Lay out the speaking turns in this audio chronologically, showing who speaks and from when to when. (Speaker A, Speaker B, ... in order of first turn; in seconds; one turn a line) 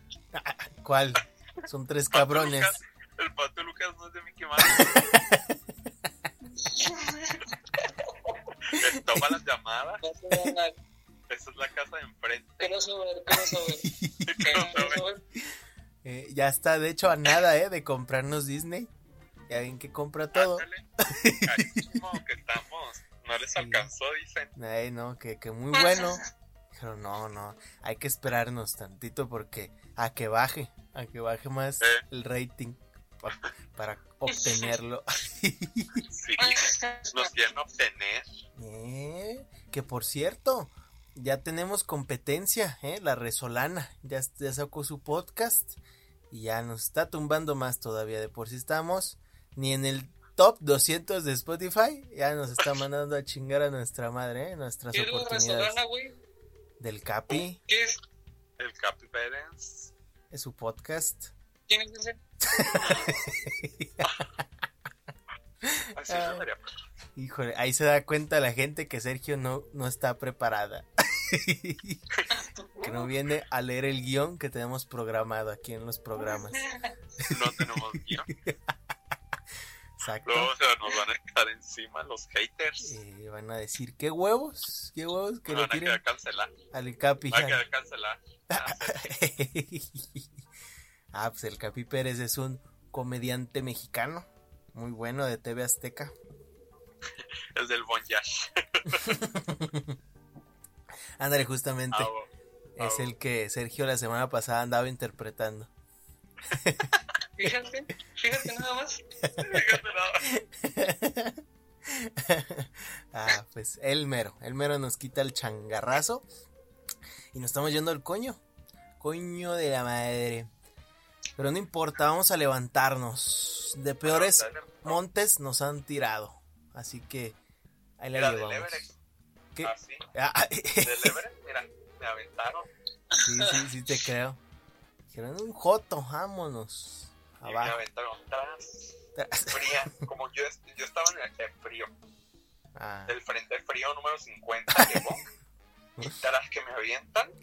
Speaker A: 0.3-2.8
Speaker B: 2.1-5.2
Speaker A: 4.7-5.4
Speaker C: 6.6-7.8
Speaker B: 8.7-10.0
Speaker A: 8.8-9.2
Speaker C: 10.0-10.8
Speaker B: 11.3-12.8
Speaker C: 12.6-13.8
Speaker A: 13.8-14.3
Speaker B: 14.2-15.0
Speaker C: 14.4-15.2
Speaker A: 16.0-18.9
Speaker A: 19.5-21.9
Speaker B: 20.3-24.5
Speaker A: 23.6-23.9
Speaker A: 24.5-36.0
Speaker C: 25.8-26.1
Speaker B: 36.0-38.4
Speaker C: 36.4-37.3
Speaker A: 38.5-45.8
Speaker A: 46.3-55.8
Speaker C: 54.9-56.2
Speaker A: 56.8-57.6
Speaker C: 57.6-58.0
Speaker B: 58.6-59.9
Speaker A: 60.3-61.3
Speaker C: 61.7-63.1
Speaker A: 62.5-64.1
Speaker A: 65.6-66.5
Speaker B: 65.9-66.8
Speaker A: 67.2-72.0
Speaker C: 72.3-73.1
Speaker A: 72.8-76.7
Speaker C: 76.3-76.8
Speaker A: 77.2-77.7
Speaker B: 77.3-78.3
Speaker A: 80.0-80.5
Speaker B: 80.2-83.0
Speaker A: 82.8-86.0
Speaker B: 85.5-86.5
Speaker A: 86.7-87.6
Speaker B: 87.3-89.2
Speaker A: 88.5-90.2
Speaker A: 91.1-96.1
Speaker B: 97.5-99.0
Speaker A: 99.0-99.9
Speaker A: 101.2-102.1
Speaker B: 101.9-103.1
Speaker A: 102.8-105.7
Speaker A: 106.6-106.9
Speaker C: 107.4-109.0
Speaker B: 109.4-110.2
Speaker A: 110.3-116.2
Speaker A: 117.3-118.4
Speaker A: 119.0-120.5
Speaker A: 121.3-127.4
Speaker B: 124.0-125.0
Speaker A: 128.0-128.9
Speaker B: 128.1-128.9
Speaker A: 129.5-131.1
Speaker B: 129.6-130.0
Speaker B: 130.8-132.7
Speaker A: 133.2-134.4
Speaker A: 135.1-137.8
Speaker B: 137.4-139.0
Speaker A: 139.2-140.0
Speaker B: 139.5-141.9
Speaker A: 142.7-143.2
Speaker B: 143.1-145.2
Speaker B: 146.0-147.3